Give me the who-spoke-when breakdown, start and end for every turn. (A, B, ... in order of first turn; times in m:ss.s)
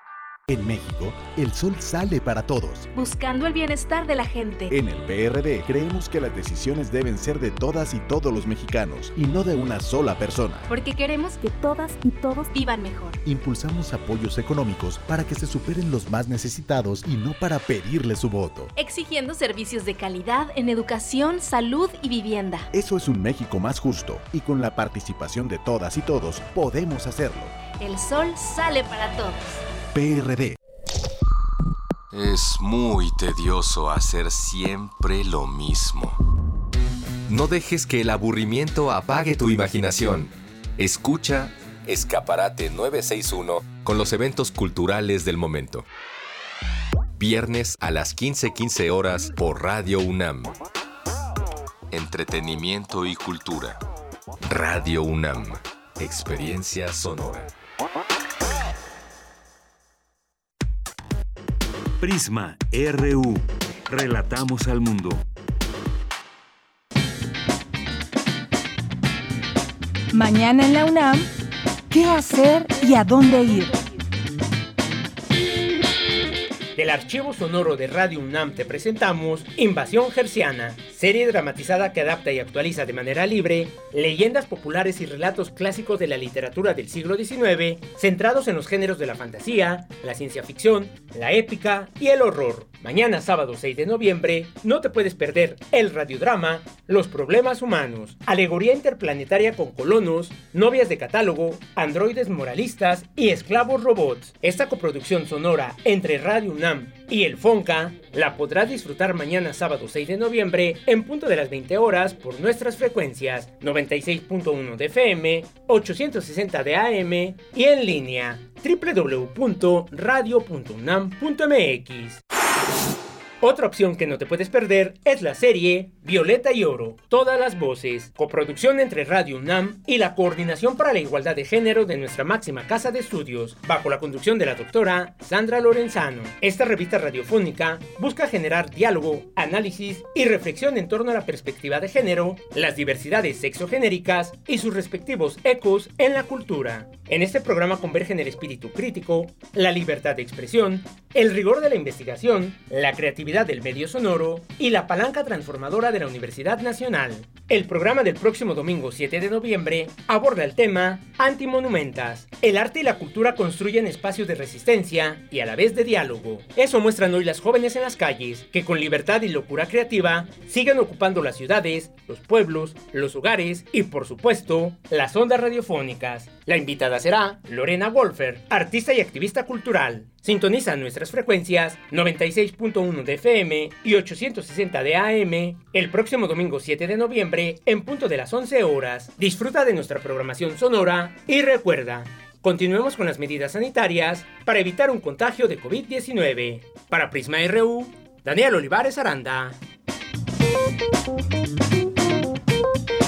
0:00.5-0:02.9 A
0:02.9-0:04.7 B
0:04.7-0:10.7 A
0:10.7-0:13.2 B
0:13.2-0:18.7 A
0:18.8-0:22.7 B
0:22.7-0:27.6 A
0:27.7-0:29.6 B
0:29.9-0:30.6 A
0:32.1-0:36.2 C
0:37.3-0:45.8 C
0:47.2-0:50.5 C
0:51.9-0:53.8 C
0:54.5-0:57.5 C
1:02.0-1:05.2 D
1:10.1-1:11.3 E
1:11.9-1:13.8 E
1:16.8-2:02.2 F
2:03.4-3:19.6 F